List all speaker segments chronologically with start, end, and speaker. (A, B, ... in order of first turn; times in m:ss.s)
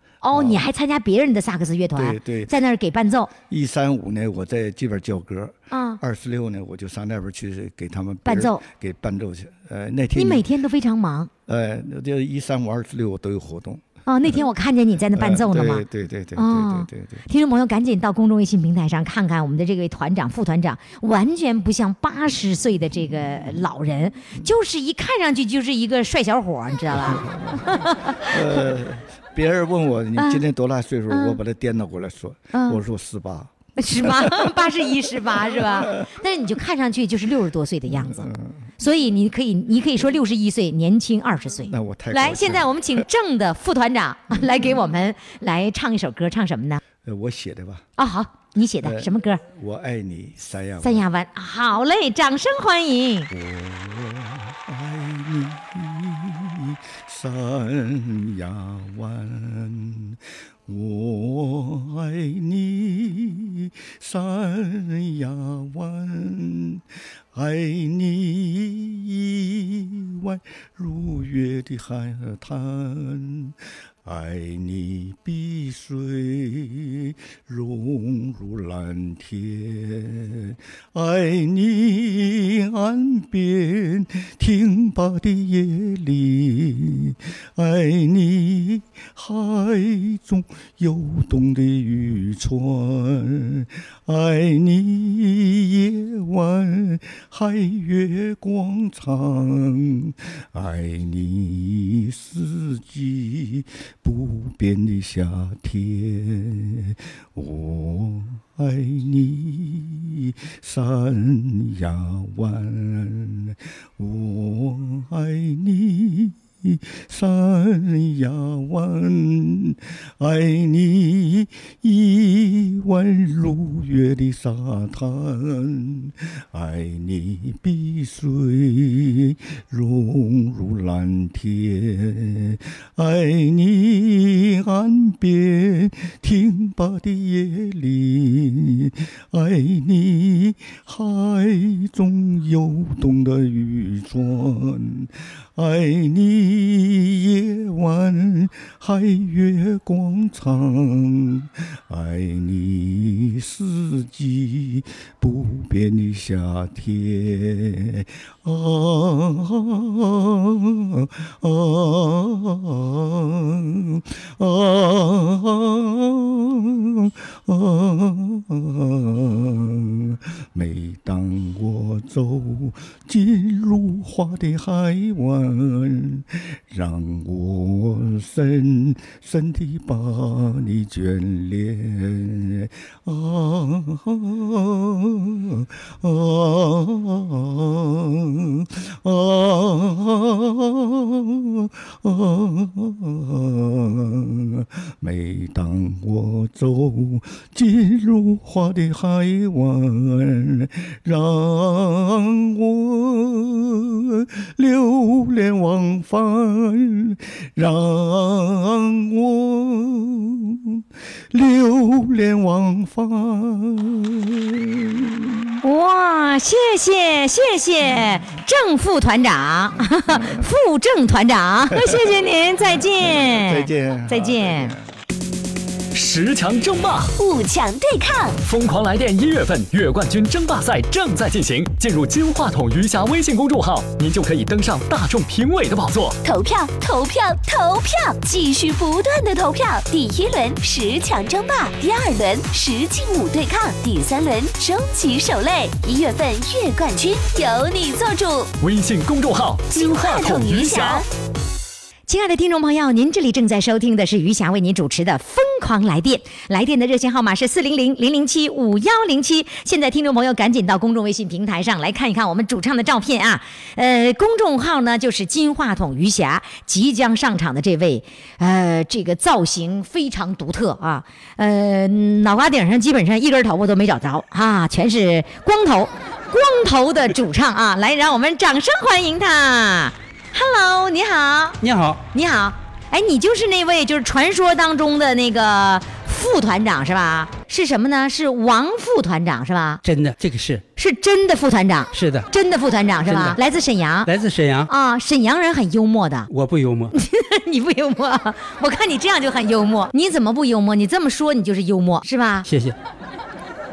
0:00.2-0:03.3 A
0:00.3-0:00.6 B
0:01.9-0:02.5 B
0:03.5-0:10.4 B
0:05.7-0:06.0 A
0:08.2-0:08.6 A
0:10.1-0:11.3 A
0:11.5-0:13.8 B
0:14.0-0:15.8 A
0:15.1-0:17.2 B
0:16.3-0:28.7 A
0:26.9-0:36.1 B
0:30.2-0:30.4 A
0:31.1-0:31.4 A
0:32.5-0:32.8 A
0:33.8-0:46.8 A
0:37.9-0:38.5 B
0:41.7-0:43.0 B
0:47.0-0:47.8 B
0:48.0-0:49.4 A
0:48.8-0:51.1 B
0:50.8-0:53.3 A
0:53.3-3:35.5 B
3:35.6-3:44.8 A
3:40.1-3:40.4 B
3:41.7-3:42.1 B
3:43.0-3:44.8 B
3:45.9-3:47.1 C
3:47.2-3:48.4 D
3:48.4-3:56.2 C
3:56.2-4:08.5 D
4:08.6-4:11.0 C
4:09.7-4:11.0 D
4:12.1-4:41.6 A
4:41.6-4:42.0 E
4:42.1-4:49.8 A
4:49.8-4:50.6 E
4:50.8-4:54.1 A
4:51.9-4:52.3 E
4:53.1-4:53.4 E
4:54.0-4:54.7 E
4:54.7-4:56.3 A
4:56.3-4:56.9 E
4:56.9-5:02.5 A
5:02.4-5:02.7 E